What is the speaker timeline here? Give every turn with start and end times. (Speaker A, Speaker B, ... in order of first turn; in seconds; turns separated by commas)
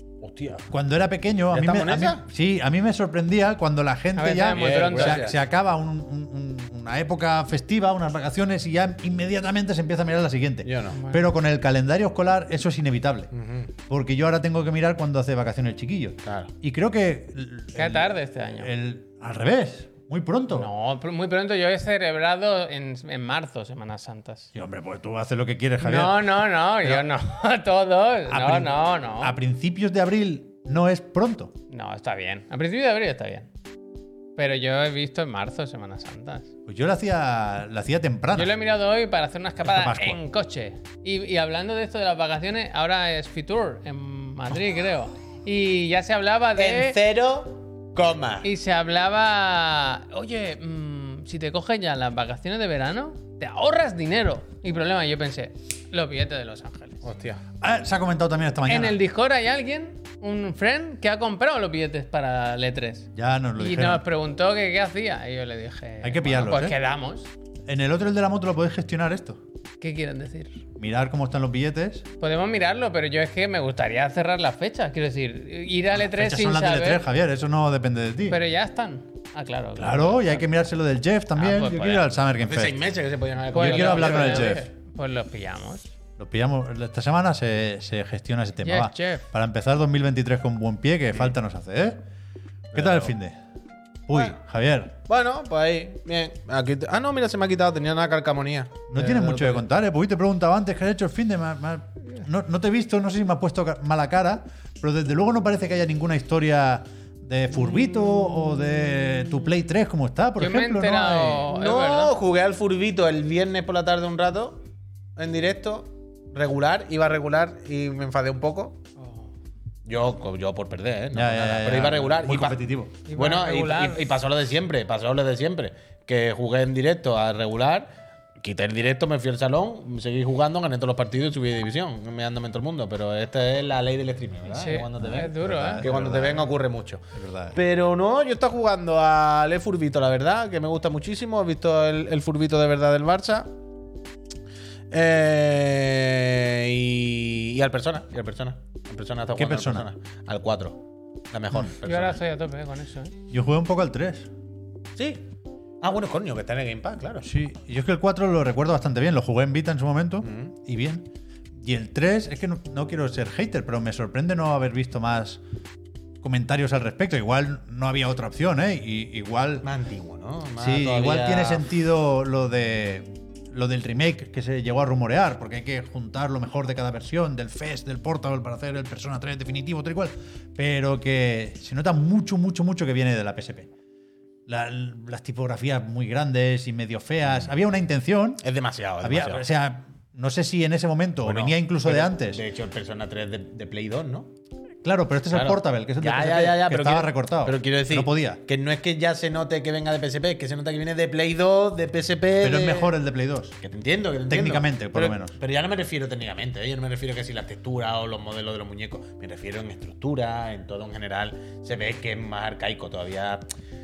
Speaker A: 0.2-0.7, Speaker B: 0.7-13.3, Speaker A: 1.5-2.2, Speaker C: 4.2-5.3, Speaker A: 4.5-5.4, Speaker A: 10.6-11.0, Speaker C: 10.9-11.2, Speaker A: 13.3-13.7, Speaker B: 13.9-20.7, Speaker A: 16.2-16.5, Speaker C: 17.7-18.7, Speaker C: 20.5-24.5, Speaker B: 24.5-26.3, Speaker C: 25.8-29.3, Speaker B: 28.3-31.5, Speaker C: 31.7-33.5, Speaker C: 34.4-36.5, Speaker B: 36.7-38.5, Speaker C: 38.3-47.0, Speaker B: 39.6-40.2, Speaker A: 46.5-48.5, Speaker C: 48.4-57.0, Speaker A: 57.0-57.4, Speaker B: 57.6-59.0, Speaker C: 58.6-67.3, Speaker B: 63.1-64.0, Speaker B: 66.0-66.8, Speaker B: 67.7-69.4, Speaker C: 69.8-70.6, Speaker B: 70.8-72.1, Speaker C: 72.2-77.0, Speaker B: 75.9-78.4, Speaker C: 78.3-80.5, Speaker B: 79.8-82.8, Speaker C: 81.4-82.1, Speaker A: 82.4-84.6, Speaker C: 83.5-85.9, Speaker B: 83.5-84.7, Speaker B: 86.2-92.0, Speaker C: 88.6-89.2, Speaker A: 92.7-93.1, Speaker B: 92.7-93.3, Speaker B: 94.1-95.0, Speaker A: 94.1-94.4, Speaker A: 95.1-99.6, Speaker B: 98.9-111.5, Speaker C: 110.4-112.1, Speaker A: 111.5-114.6, Speaker A: 115.2-118.8, Speaker A: 119.8-127.9, Speaker B: 121.1-123.0, Speaker C: 123.0-124.1, Speaker A: 128.4-137.0, Speaker C: 134.5-135.8, Speaker B: 135.0-136.5, Speaker B: 137.1-137.6, Speaker A: 137.5-143.5, Speaker A: 144.9-152.2, Speaker B: 149.4-149.9, Speaker C: 151.8-153.1, Speaker B: 153.3-154.3, Speaker A: 154.9-155.2, Speaker A: 155.8-157.3, Speaker B: 157.2-165.4, Speaker A: 160.2-160.5, Speaker B: 166.2-169.7, Speaker A: 169.6-171.7, Speaker B: 170.6-183.7, Speaker B: 184.5-188.4, Speaker A: 188.4-189.4, Speaker B: 189.0-192.4, Speaker A: 191.2-194.3, Speaker B: 194.8-198.4, Speaker A: 195.3-202.9, Speaker B: 202.4-203.6, Speaker A: 203.6-213.4, Speaker B: 204.3-205.3